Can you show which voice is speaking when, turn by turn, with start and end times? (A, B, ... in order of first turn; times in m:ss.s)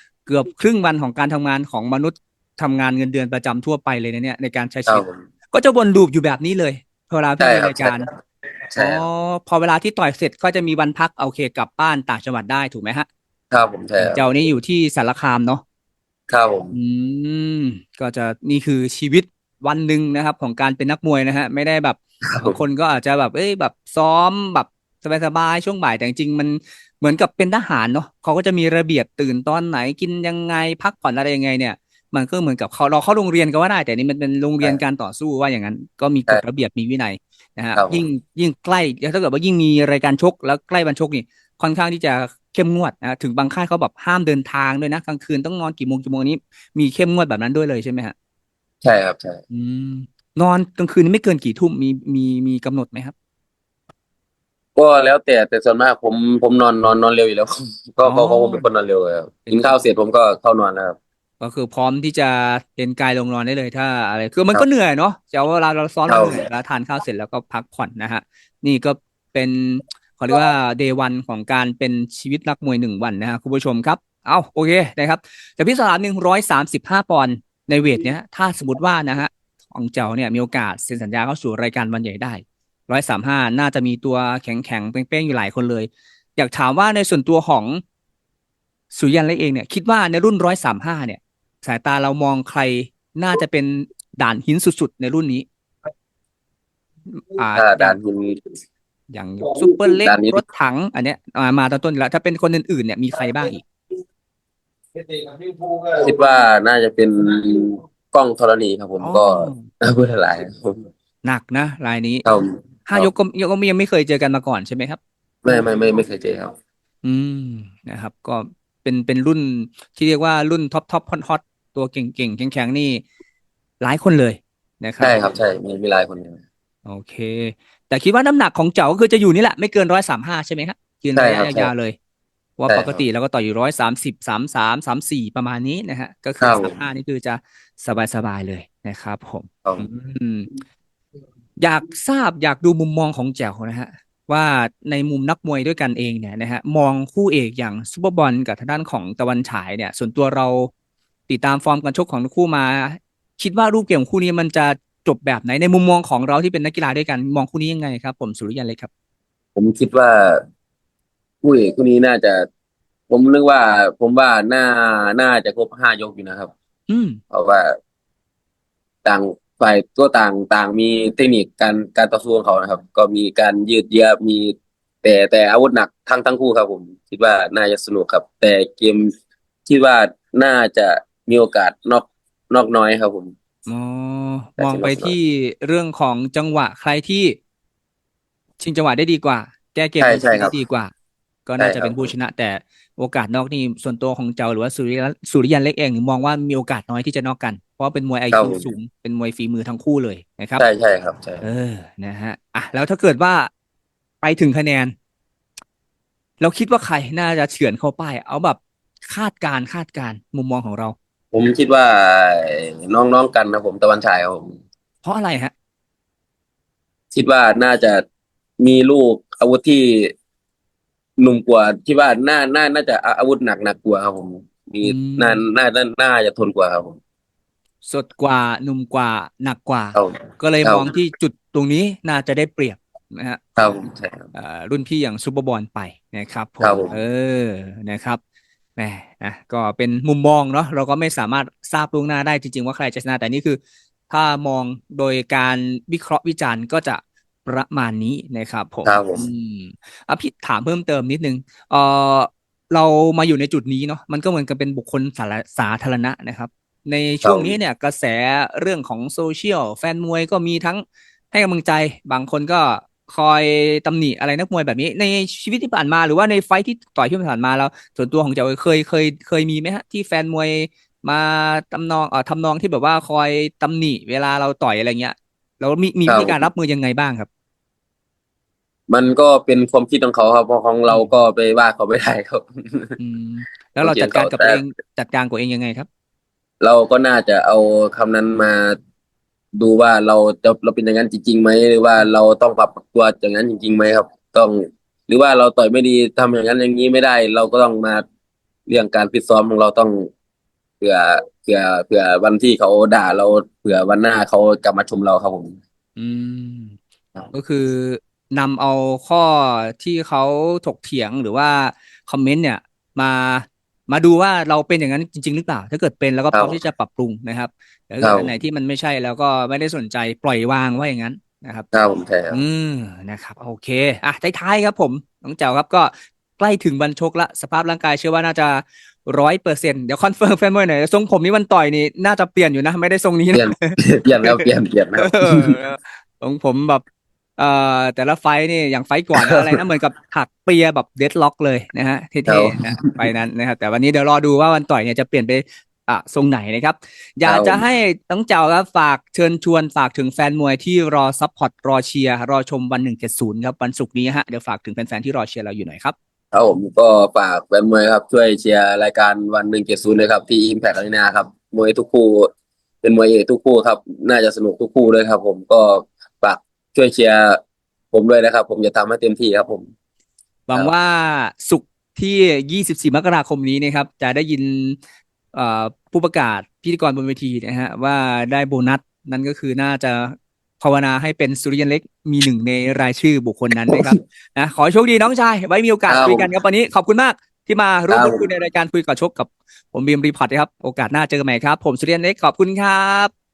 0:00.3-0:08.1 A
0:04.9-0:05.2 B
0:07.4-0:08.0 B
0:08.7-0:09.0 B
0:08.8-0:13.1 A
0:13.5-0:14.3 B
0:14.0-0:15.6 A
0:16.3-0:16.8 B
0:16.7-0:48.1 A
0:22.2-0:22.6 B
0:37.8-0:38.1 B
0:48.8-0:49.4 B
0:49.5-0:53.1 A
0:54.8-1:01.0 B
0:58.0-0:58.7 A
0:59.5-0:59.7 A
1:01.4-1:27.8 A
1:06.1-1:06.5 B
1:28.9-1:35.5 A
1:37.1-1:38.0 A
1:37.6-1:38.4 B
1:39.1-1:43.6 A
1:39.9-1:40.4 B
1:46.0-1:50.8 B
1:49.0-1:49.7 A
1:51.2-1:52.2 A
1:52.2-1:53.1 B
1:52.9-1:55.0 A
1:55.4-1:56.5 B
1:57.0-2:03.0 A
2:03.8-2:05.2 A
2:05.0-2:06.4 B
2:06.9-2:12.0 A
2:11.2-2:11.7 B
2:12.6-2:20.5 A
2:12.7-2:13.0 B
2:16.4-2:16.8 B
2:21.6-2:30.7 A
2:31.3-2:38.9 A
2:39.6-2:40.4 B
2:41.4-2:42.5 B
2:43.1-2:46.5 B
2:46.9-2:47.2 A
2:47.3-2:47.8 B
2:49.0-2:59.1 B
2:59.7-3:03.3 B
3:03.7-3:07.4 A
3:04.6-3:05.1 B
3:08.6-3:10.9 A
3:10.0-3:10.6 B
3:11.5-3:20.6 A
3:11.6-3:12.1 B
3:18.3-3:18.7 B
3:20.6-3:21.4 B
3:21.4-3:23.5 A
3:24.2-3:24.9 A
3:26.4-3:31.0 A
3:31.3-3:34.6 B
3:35.0-3:35.5 A
3:37.2-3:38.0 B
3:38.6-3:40.1 B
3:41.2-3:47.0 B
3:44.8-3:45.4 A
3:47.8-3:53.4 A
3:50.0-3:50.9 B
3:53.6-3:54.3 B
3:54.3-3:58.2 A
3:56.6-3:57.0 B
3:58.8-4:37.3 A
4:08.8-4:09.3 B
4:17.2-4:17.6 B
4:36.1-4:36.4 B
4:38.9-4:43.0 B
4:43.0-4:45.9 A
4:43.8-4:44.6 B
4:46.6-4:48.8 B
4:49.6-4:58.0 B
4:58.7-5:00.1 B
5:00.8-5:05.6 B
5:06.0-5:06.8 A
5:07.3-5:21.7 A
5:16.3-5:16.6 B
5:18.0-5:18.3 B
5:21.7-5:22.4 B
5:22.3-5:34.4 A
5:33.3-5:35.6 B
5:35.0-5:36.8 A
5:37.4-5:56.0 A
5:39.2-5:39.6 B
5:42.3-5:43.1 B
5:47.3-5:47.6 B
5:56.3-6:02.3 B
6:02.8-6:07.4 B
6:07.9-6:09.7 B
6:10.5-6:14.8 A
6:15.3-6:33.1 A
6:25.9-6:26.3 B
6:27.9-6:28.2 B